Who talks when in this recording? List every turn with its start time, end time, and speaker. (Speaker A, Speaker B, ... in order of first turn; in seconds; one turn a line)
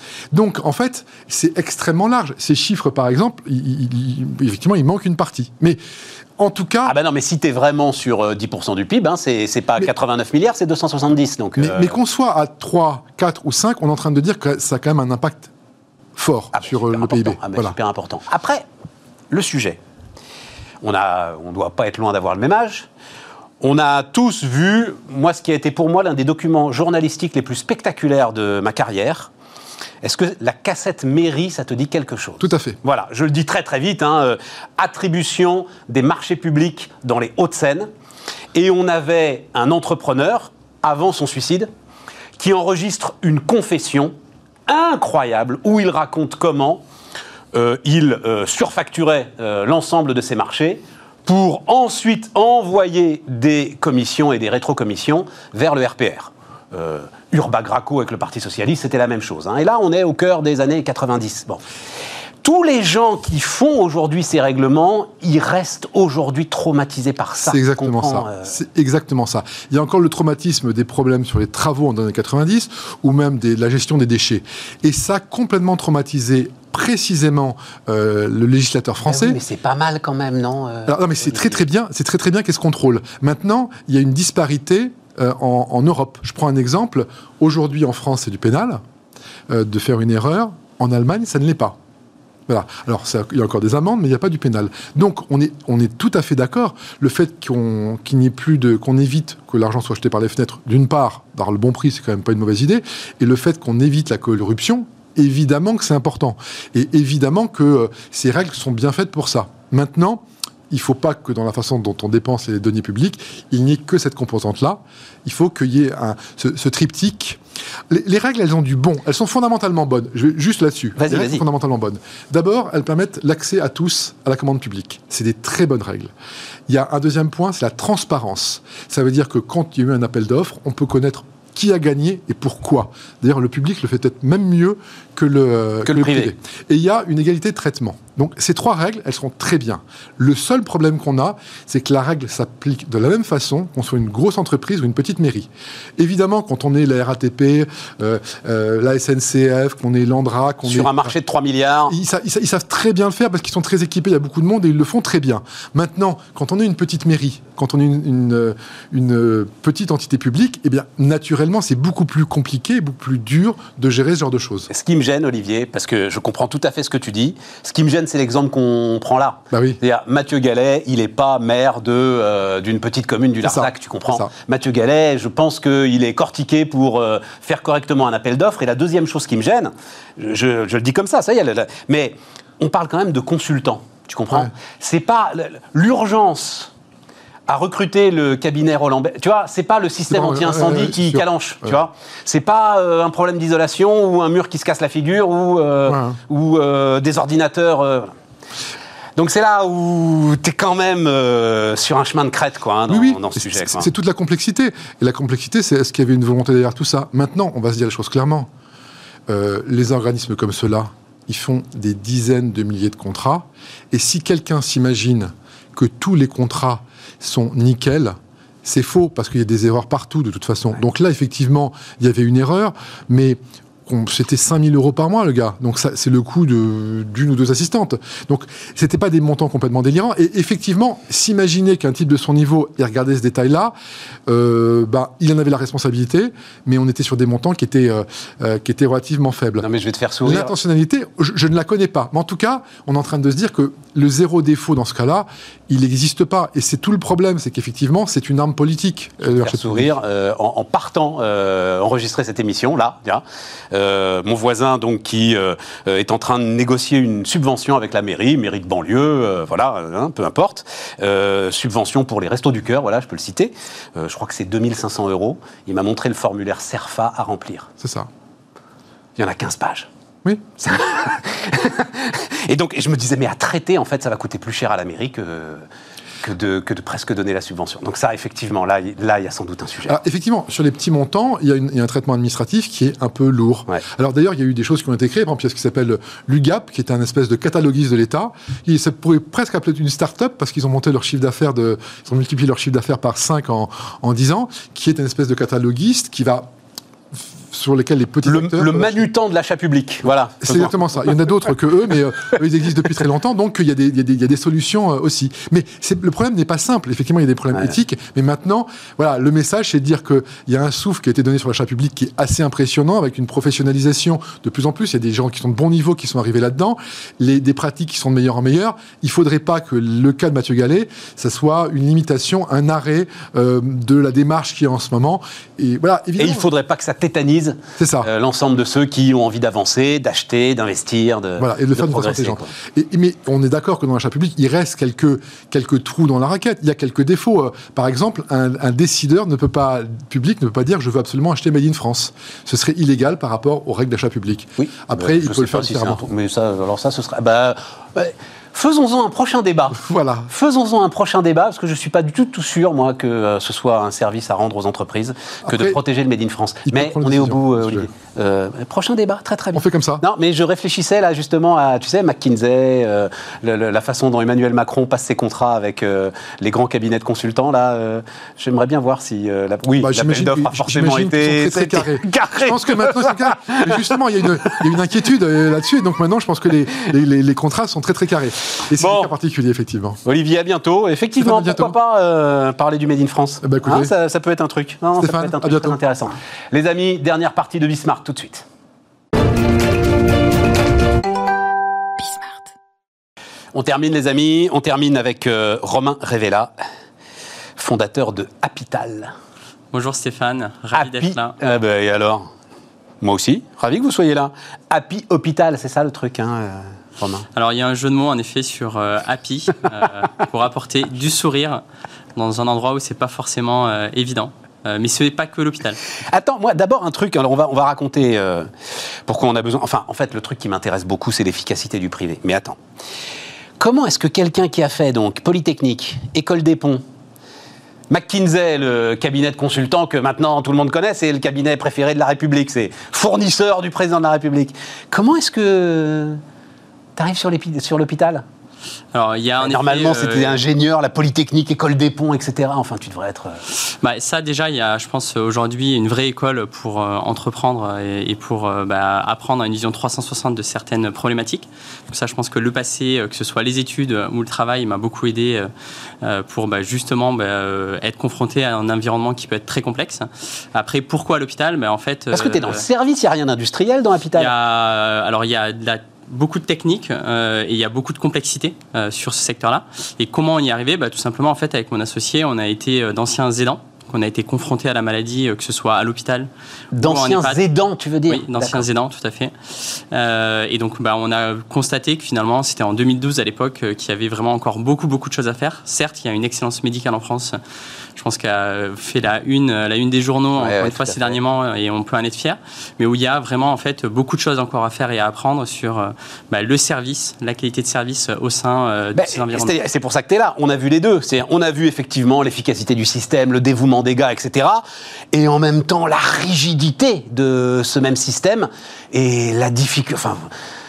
Speaker A: 0.3-5.8
Speaker A: 6.4-6.9
Speaker B: 6.8-12.0
Speaker A: 11.6-15.5
Speaker A: 16.2-17.7
Speaker B: 16.5-18.6
Speaker B: 19.3-19.8
Speaker B: 20.8-22.9
Speaker B: 23.6-29.3
Speaker B: 30.0-37.9
Speaker A: 32.4-32.8
Speaker B: 38.5-41.7
Speaker B: 42.4-44.1
Speaker B: 44.7-46.8
Speaker B: 47.5-61.6
Speaker B: 62.4-68.5
Speaker A: 67.5-79.4
Speaker B: 79.1-81.6
Speaker A: 80.9-88.8
Speaker A: 89.5-91.8
Speaker A: 92.5-126.1
Speaker B: 121.0-121.4
Speaker A: 126.7-151.1
Speaker B: 135.8-136.3
Speaker B: 150.6-151.9
Speaker A: 151.9-164.7
Speaker B: 164.7-186.7
Speaker A: 169.5-169.8
Speaker A: 173.4-174.3
Speaker B: 187.5-198.1
Speaker A: 190.1-191.7
Speaker A: 195.9-196.2
Speaker B: 199.2-203.9
Speaker A: 202.9-208.5
Speaker A: 209.3-233.7
Speaker A: 234.3-239.7
Speaker B: 239.6-240.5
Speaker A: 240.2-249.9
Speaker B: 249.2-267.7
Speaker A: 267.8-268.1
Speaker B: 269.2-269.9
Speaker B: 270.6-275.6
Speaker B: 276.2-280.0
Speaker A: 279.9-296.5
Speaker A: 297.5-299.1
Speaker B: 298.2-301.1
Speaker A: 300.4-326.4
Speaker B: 326.2-332.5
Speaker A: 327.8-328.1
Speaker A: 331.4-346.0
Speaker B: 344.6-374.8
Speaker A: 349.8-350.3
Speaker A: 355.5-355.8
Speaker A: 356.7-357.9
Speaker A: 359.5-360.0
Speaker A: 369.8-380.0
Speaker B: 378.8-379.1
Speaker B: 380.0-388.4
Speaker A: 381.2-381.7
Speaker A: 383.4-383.9
Speaker A: 385.0-385.8
Speaker B: 393.5-396.5
Speaker B: 397.6-399.1
Speaker C: 399.7-401.3
Speaker B: 400.7-402.3
Speaker B: 403.0-407.3
Speaker C: 407.3-411.6
Speaker C: 412.1-415.8
Speaker B: 416.1-418.5
Speaker B: 419.1-422.6
Speaker B: 423.6-426.8
Speaker B: 427.9-436.2
Speaker B: 436.9-438.2
Speaker C: 438.9-440.4
Speaker B: 439.4-443.4
Speaker C: 443.6-455.5
Speaker C: 456.0-462.6
Speaker B: 462.1-464.3
Speaker C: 464.1-476.3
Speaker B: 476.7-478.7
Speaker C: 476.8-477.4
Speaker C: 478.1-487.4
Speaker C: 487.9-499.5
Speaker B: 490.4-491.2
Speaker B: 498.9-510.3